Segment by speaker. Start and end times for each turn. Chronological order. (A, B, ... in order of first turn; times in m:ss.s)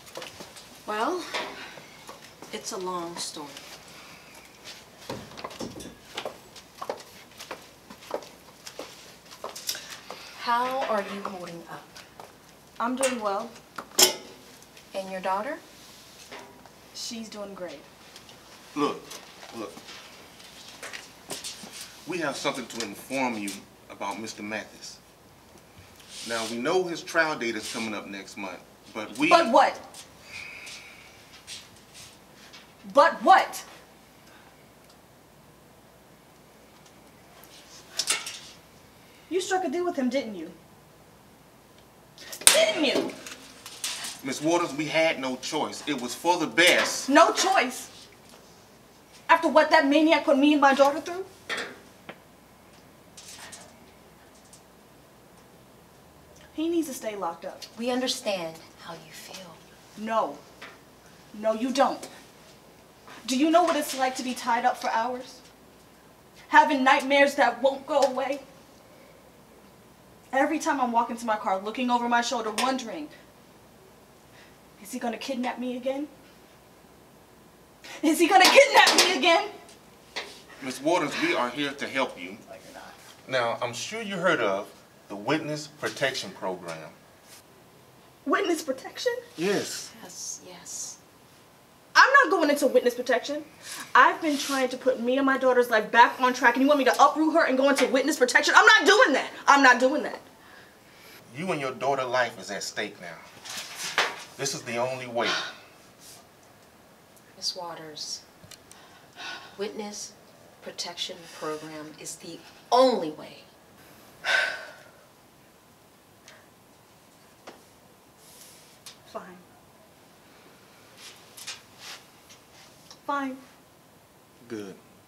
0:00.9-0:01.3 A
0:02.5-0:03.6 A
0:10.4-0:11.9 A
0:12.8-0:13.5 B
0:14.9-0:15.6 A
0:16.9-0:17.9 B
0:18.7-0:19.8 C
0:22.0-0:25.0 C
0:26.2-0:29.5 C
0:29.2-0:29.8 B
0:32.8-0:33.6 B
0:39.3-0:40.6 B
0:42.5-0:43.1 B
0:44.2-0:47.1 C
0:47.1-0:47.9 B
0:49.3-0:51.3 B
0:56.5-0:57.6 B
0:57.8-0:59.6 A
1:00.0-1:00.4 B
1:01.3-1:02.1 B
1:03.2-1:05.4 B
1:06.5-1:08.4 B
1:10.3-1:13.1 B
1:14.8-1:16.1 B
1:18.0-1:19.5 B
1:20.6-1:22.4 C
1:22.5-1:23.0 B
1:23.2-1:27.0 C
1:28.2-1:29.2 B
1:29.4-1:29.9 C
1:30.0-1:31.0 A
1:31.9-1:40.2 B
1:41.3-1:43.2 C
1:44.4-1:45.4 C
1:47.4-1:48.2 A
1:49.6-1:53.4 A
1:59.1-1:59.4 B
2:03.0-2:03.4 B
2:04.4-2:04.8 C